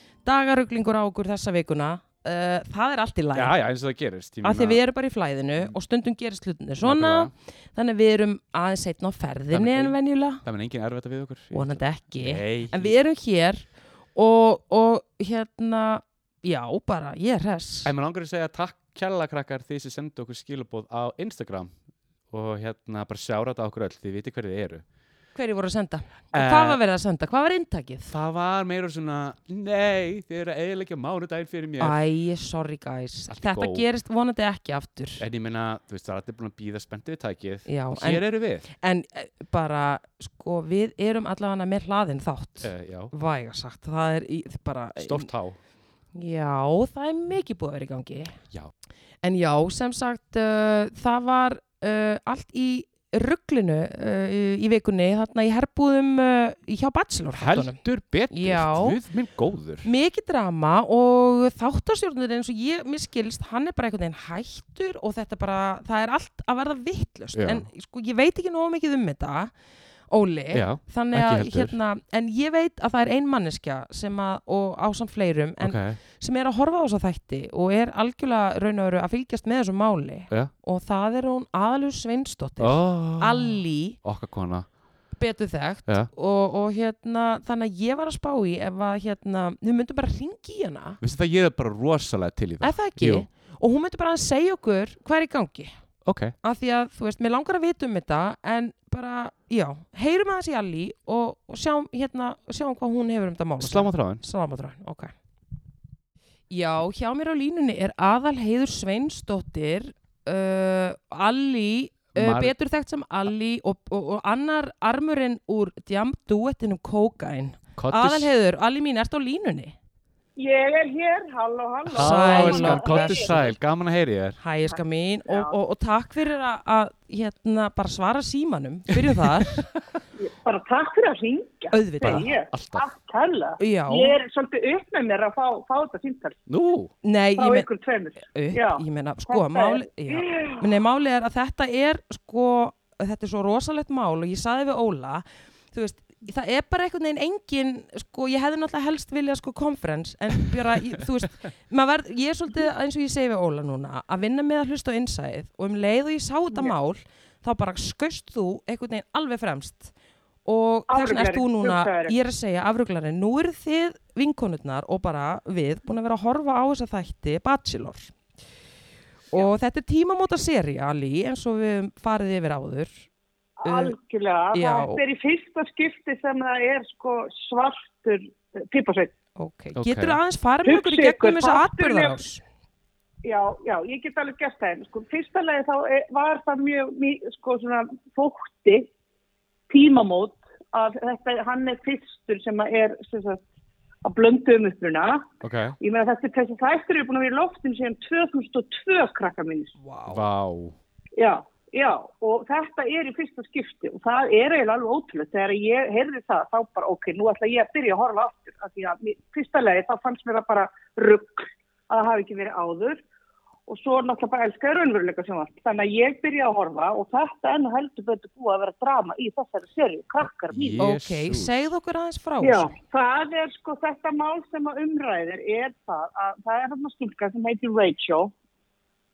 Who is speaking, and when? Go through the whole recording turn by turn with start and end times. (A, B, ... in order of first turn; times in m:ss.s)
0:00.2-0:03.6 A
0:03.4-0:04.8 B
0:04.4-0:10.4 A
0:06.8-0:07.3 B
0:09.5-0:12.9 B
0:11.5-0:17.9 A
0:17.8-0:21.7 B
0:22.3-0:24.8 B
0:25.4-0:28.1 A
0:26.3-0:26.8 B
0:28.1-0:32.0 B
0:31.8-0:35.2 A
0:33.3-0:33.9 B
0:35.2-0:38.7 B
0:37.7-0:45.3 A
0:42.6-0:43.1 B
0:45.0-0:45.6 B
0:46.1-0:48.4 A
0:49.2-0:57.8 A
0:57.3-0:59.9 B
0:58.3-0:59.0 A
0:59.8-1:09.5 A
1:07.4-1:07.7 B
1:10.1-1:24.0 A
1:10.5-1:11.8 B
1:15.6-1:16.0 B
1:22.6-1:24.7 B
1:25.2-1:31.0 A
1:31.0-1:33.3 B
1:32.6-1:35.7 A
1:36.0-1:36.3 B
1:36.4-1:45.1 A
1:43.6-1:44.2 B
1:46.5-1:59.8 A
1:52.2-1:52.5 B
1:57.8-1:58.3 B
2:00.4-2:03.3 C
2:01.9-2:04.4 B
2:01.9-2:03.6 A
2:04.4-2:09.7 A
2:05.3-2:05.5 C
2:10.2-2:16.4 C
2:11.7-2:12.3 A
2:12.0-2:12.9 B
2:13.6-2:14.2 A
2:16.5-2:16.9 B
2:17.0-2:17.7 A
2:17.4-2:20.7 C
2:18.3-2:39.9 A
2:40.4-2:48.2 A
2:40.9-2:42.2 C
2:49.3-2:53.1 A
2:53.6-2:59.1 C
2:53.6-2:54.0 A
2:54.5-2:55.0 A
2:59.4-3:02.4 A
2:59.8-3:00.2 B
3:00.6-3:02.2 C
3:03.2-3:08.9 C
3:09.7-3:13.4 C
3:14.0-3:15.3 C
3:15.4-3:15.8 B
3:15.8-3:19.8 C
3:19.8-3:20.2 A
3:20.1-3:20.8 B
3:21.2-3:33.0 C
3:33.7-3:40.8 C
3:40.5-3:41.5 B
3:40.8-3:42.7 A
3:42.4-3:48.3 C